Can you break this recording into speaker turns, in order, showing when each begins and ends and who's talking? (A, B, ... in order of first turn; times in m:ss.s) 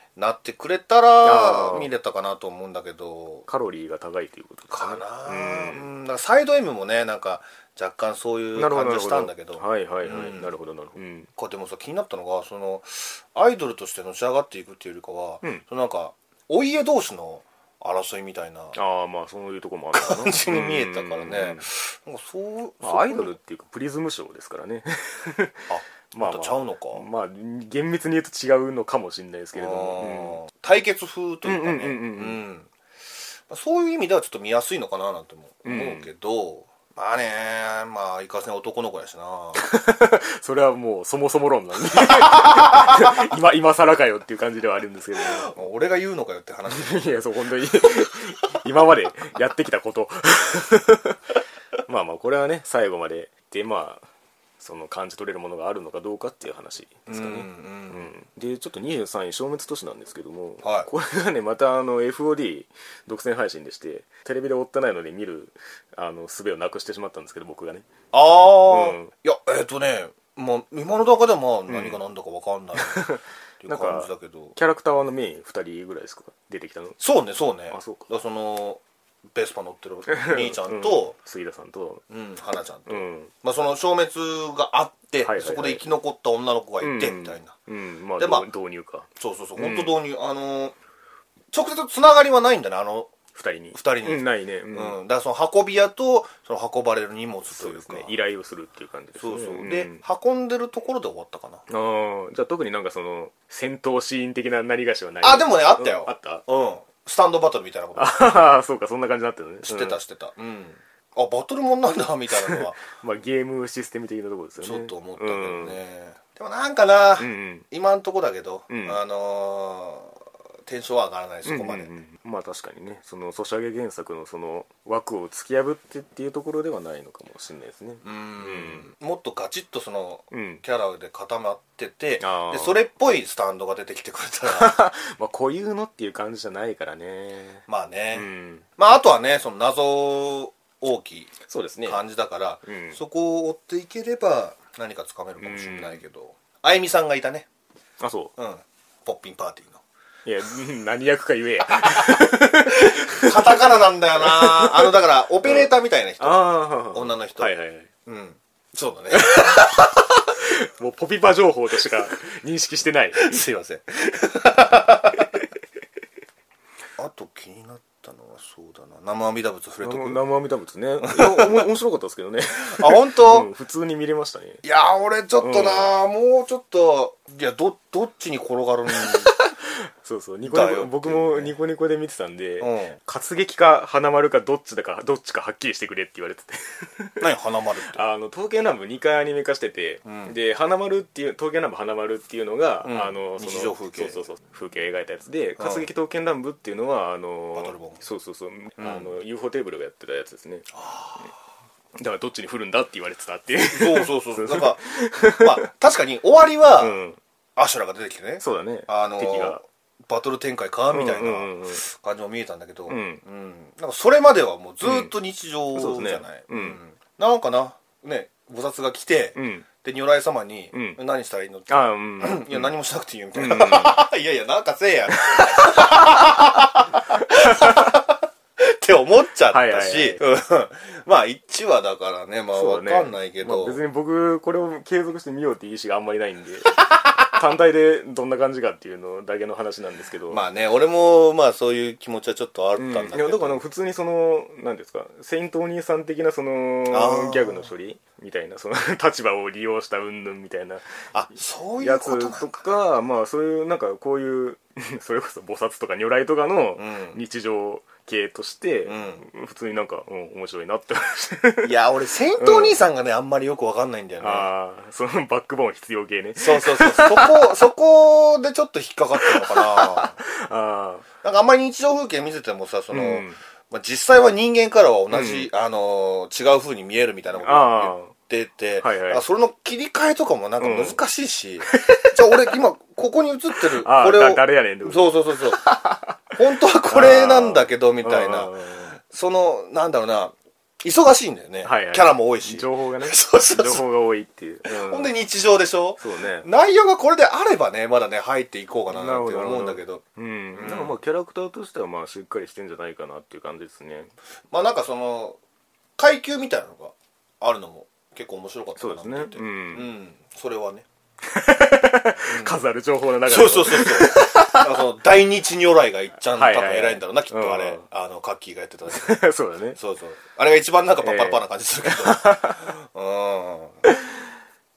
0:00.2-0:03.4 A
0:01.2-0:01.9 B
0:03.5-0:05.9 B
0:04.7-0:10.5 A
0:08.6-0:11.3 B
0:11.4-0:18.8 A
0:18.7-0:21.6 B
0:19.9-0:23.4 A
0:22.8-0:30.4 B
0:25.7-0:27.0 A
0:29.5-0:32.7 A
0:31.4-0:32.4 B
0:33.5-0:39.6 A
0:35.6-0:36.1 B
0:39.6-0:45.6 B
0:42.0-0:43.1 A
0:45.2-0:47.1 A
0:46.7-0:51.2 B
0:51.8-0:54.0 B
0:54.6-1:07.8 B
0:57.1-0:58.0 A
1:00.6-1:00.9 A
1:08.1-1:13.1 A
1:08.6-1:09.1 B
1:11.7-1:12.0 B
1:12.8-1:17.0 B
1:13.6-1:14.5 A
1:17.0-1:18.8 A
1:17.7-1:18.1 B
1:19.3-1:21.1 A
1:20.1-1:22.0 B
1:22.1-1:27.5 A
1:22.9-1:23.3 B
1:25.2-1:25.8 B
1:26.8-1:30.0 B
1:28.2-1:28.4 A
1:29.2-1:30.8 A
1:31.5-1:33.1 A
1:33.3-1:35.0 B
1:33.7-1:38.1 A
1:37.5-1:40.0 B
1:39.2-1:41.6 A
1:41.7-1:46.4 B
1:45.2-1:48.3 A
1:48.0-1:50.0 B
1:49.6-1:52.8 A
1:52.4-1:55.8 B
1:54.6-2:01.9 A
1:57.2-1:57.6 B
1:58.7-1:59.0 B
2:01.4-2:08.9 B
2:08.0-2:14.7 A
2:10.3-2:10.6 B
2:12.2-2:12.8 B
2:14.4-2:17.6 B
2:17.7-2:21.3 A
2:18.1-2:18.6 B
2:21.5-2:22.0 B
2:21.8-2:27.5 A
2:22.6-2:23.0 B
2:25.4-2:26.0 B
2:28.0-2:28.3 B
2:28.4-2:29.8 A
2:30.2-2:33.4 B
2:31.8-2:37.5 A
2:34.2-2:37.9 B
2:38.0-2:39.7 A
2:39.1-2:43.4 B
2:43.2-2:45.3 A
2:47.0-2:50.2 A
2:49.8-2:54.6 B
2:51.0-2:51.7 A
2:52.6-2:53.5 A
2:54.6-2:59.4 A
2:55.4-2:55.9 B
2:59.0-3:07.3 B
3:00.4-3:01.5 A
3:02.6-3:03.0 A
3:07.2-3:08.0 A
3:07.8-3:20.7 B
3:10.0-3:10.3 A
3:12.8-3:14.2 A
3:15.6-3:15.9 A
3:17.5-3:18.0 A
3:18.8-3:19.1 A
3:20.7-3:21.3 A
3:22.0-3:25.7 B
3:23.7-3:27.0 A
3:26.8-3:27.2 B
3:27.6-3:53.8 A
3:28.4-3:29.6 B
3:30.9-3:31.8 B
3:32.9-3:33.2 B
3:34.8-3:35.1 B
3:35.8-3:36.8 B
3:39.4-3:39.6 B
3:40.7-3:41.0 B
3:41.7-3:42.7 B
3:43.3-3:44.1 B
3:45.3-3:46.4 B
3:47.3-3:48.0 B
3:49.5-3:50.2 B
3:52.5-4:00.4 B
4:00.3-4:03.6 A
4:02.8-4:10.9 B
4:06.9-4:07.7 A
4:11.1-4:12.6 A
4:11.8-4:21.7 B
4:16.8-4:17.2 A
4:18.9-4:19.2 A
4:21.6-4:24.5 A
4:22.4-4:22.8 B
4:24.2-4:27.5 B
4:26.4-4:30.2 A
4:29.2-4:31.0 B
4:31.2-4:45.6 A
4:32.9-4:33.4 B
4:35.1-4:35.5 B
4:37.4-4:38.1 B
4:38.8-4:39.2 B
4:40.6-4:41.0 B
4:41.7-4:42.6 B
4:43.5-4:46.2 B
4:46.3-4:48.5 A
4:46.9-4:49.0 B
4:49.1-4:53.8 A
4:51.6-4:55.1 B
4:54.6-5:00.0 A
4:56.0-4:56.5 B
4:58.9-5:04.1 B
5:00.5-5:01.0 A
5:04.5-5:05.4 A
5:06.0-5:10.9 A
5:08.8-5:09.9 B
5:11.2-5:14.8 B
5:12.3-5:12.6 A
5:13.2-5:19.2 A
5:16.3-5:17.9 B
5:18.9-5:19.8 B
5:19.8-5:23.8 A
5:21.0-5:22.7 B